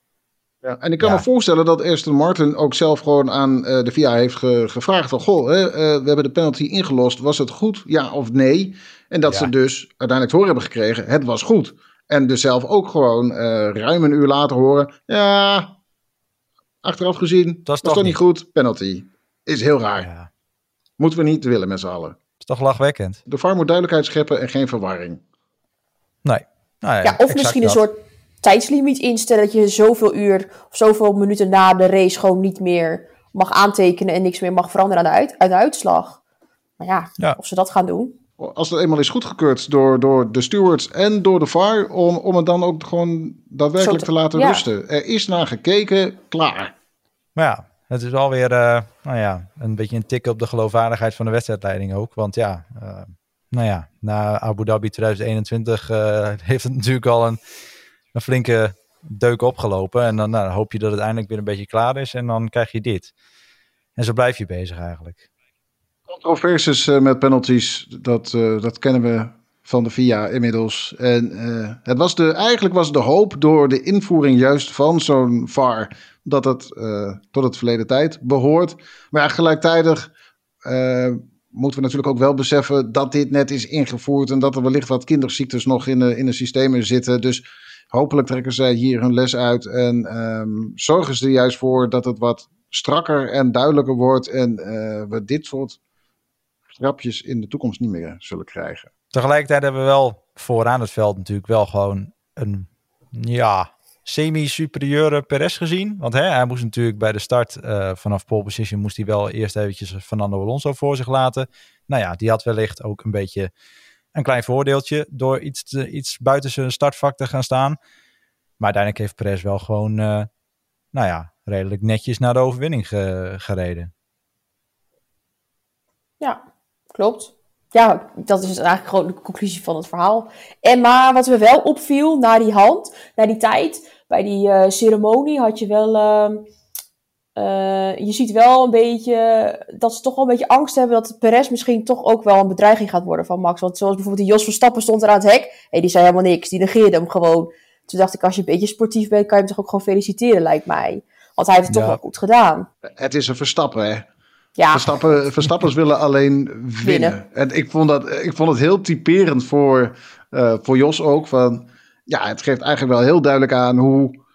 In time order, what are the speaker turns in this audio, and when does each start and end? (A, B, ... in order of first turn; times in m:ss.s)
0:00.6-0:15.8 A
0:01.0-0:01.2 B
0:09.2-0:09.5 B
0:16.8-0:20.1 A
0:17.6-0:18.2 B
0:20.0-0:20.3 B
0:21.0-0:22.2 A
0:22.4-0:23.2 B
0:23.3-0:25.2 A
0:26.2-0:27.8 B
0:27.0-0:36.2 C
0:36.8-0:38.1 C
0:38.4-0:46.7 A
0:43.8-0:44.6 C
0:47.4-0:57.4 B
0:58.1-1:03.1 B
1:04.0-1:05.2 B
1:06.1-1:20.1 A
1:20.6-1:35.8 A
1:36.7-1:38.9 A
1:39.1-1:53.5 B
1:54.1-1:57.8 B
1:58.6-2:00.3 B
2:00.9-2:03.9 B
2:06.9-2:16.4 C
2:17.3-2:32.7 C
2:31.7-2:32.0 B
2:32.8-2:34.1 A
2:34.6-2:34.9 C
2:34.7-2:44.2 A
2:36.8-2:37.2 C